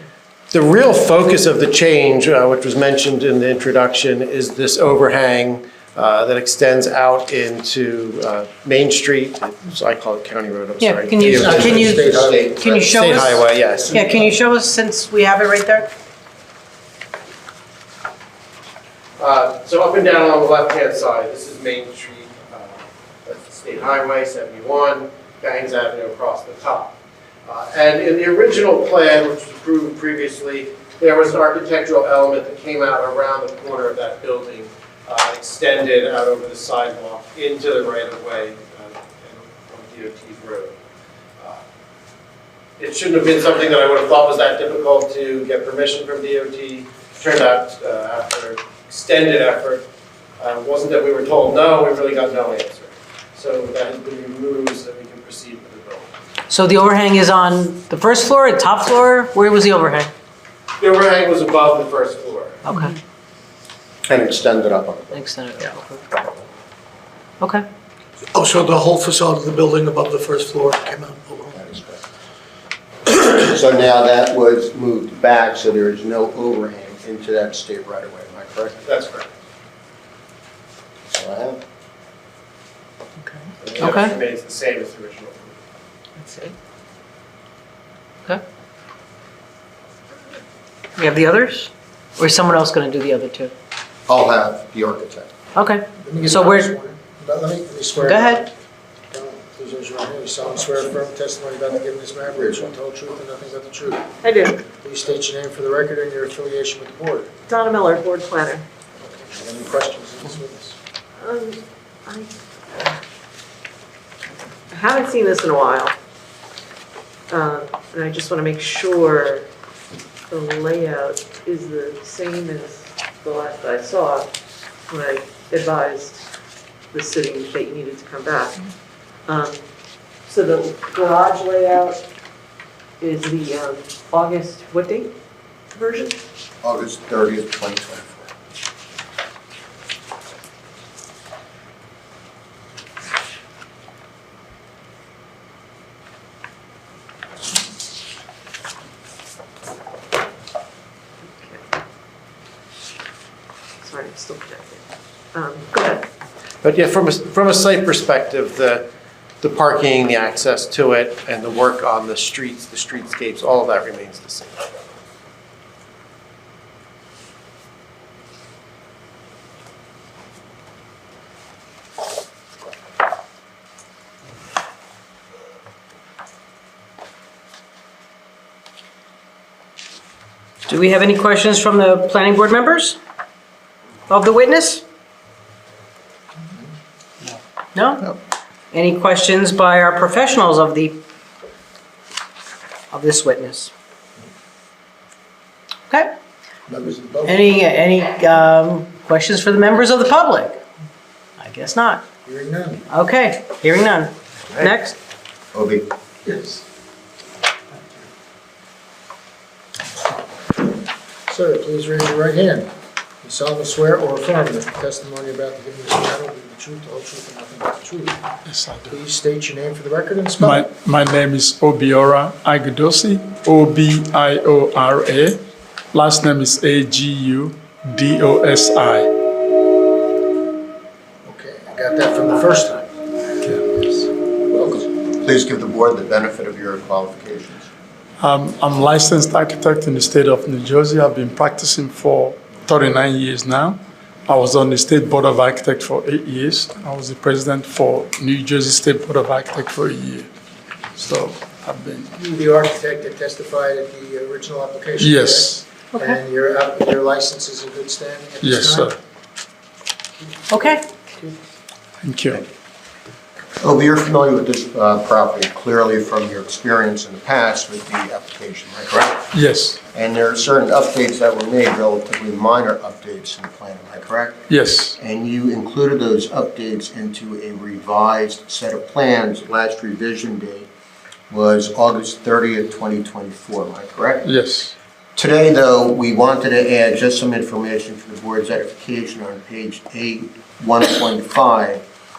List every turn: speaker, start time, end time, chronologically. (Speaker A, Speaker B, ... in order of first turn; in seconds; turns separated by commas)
Speaker A: 0.5-14.1, Speaker B: 10.8-15.9, Speaker C: 11.2-12.8, Speaker C: 13.7-14.3, Speaker A: 19.2-40.7, Speaker A: 42.8-49.8, Speaker A: 50.4-56.1, Speaker B: 56.5-60.1, Speaker A: 60.8-62.6, Speaker B: 62.6-63.0, Speaker D: 64.1-65.2, Speaker B: 65.1-66.2, Speaker B: 67.4-67.6, Speaker E: 68.3-71.6, Speaker D: 71.5-72.0, Speaker D: 73.0-78.8, Speaker A: 78.8-79.3, Speaker D: 81.1-81.6, Speaker A: 83.6-85.6, Speaker B: 83.8-84.2, Speaker F: 86.2-86.5, Speaker B: 91.0-93.5, Speaker D: 94.1-95.3, Speaker B: 95.5-96.7, Speaker C: 96.0-98.5, Speaker B: 98.0-98.5, Speaker C: 99.1-104.1, Speaker F: 104.2-104.6, Speaker C: 104.8-107.3, Speaker F: 107.5-108.7, Speaker C: 109.1-110.8, Speaker F: 111.2-112.9, Speaker F: 114.7-115.9, Speaker F: 117.3-119.5, Speaker F: 120.3-124.3, Speaker F: 124.9-126.2, Speaker F: 126.9-128.6, Speaker F: 129.3-129.6, Speaker F: 130.2-132.0, Speaker F: 133.0-135.1, Speaker F: 135.7-136.2, Speaker D: 136.6-138.3, Speaker F: 151.2-151.6, Speaker F: 153.8-156.1, Speaker A: 156.6-158.8, Speaker A: 159.4-164.6, Speaker B: 180.7-183.0, Speaker B: 184.1-184.8, Speaker B: 187.7-188.2, Speaker B: 188.7-191.0, Speaker B: 192.9-193.7, Speaker C: 196.7-197.7, Speaker B: 197.2-200.6, Speaker B: 201.4-202.1, Speaker C: 202.2-202.8, Speaker B: 202.9-204.9, Speaker D: 205.5-205.8, Speaker C: 206.3-206.6, Speaker C: 211.3-212.7, Speaker C: 213.2-218.2, Speaker G: 218.4-219.0, Speaker C: 218.9-220.7, Speaker G: 220.4-225.4, Speaker G: 225.9-229.1, Speaker C: 231.2-232.9, Speaker C: 233.8-234.9, Speaker D: 235.2-237.7, Speaker G: 238.2-250.3, Speaker G: 250.9-252.1, Speaker C: 252.2-258.9, Speaker G: 255.0-255.7, Speaker B: 255.9-256.2, Speaker G: 258.4-258.9, Speaker B: 260.5-260.8, Speaker G: 262.0-262.4, Speaker D: 263.6-269.3, Speaker G: 269.3-269.8, Speaker D: 269.9-274.5, Speaker G: 274.5-274.9, Speaker D: 275.0-280.7, Speaker D: 281.3-284.2, Speaker G: 284.2-284.7, Speaker D: 285.1-291.8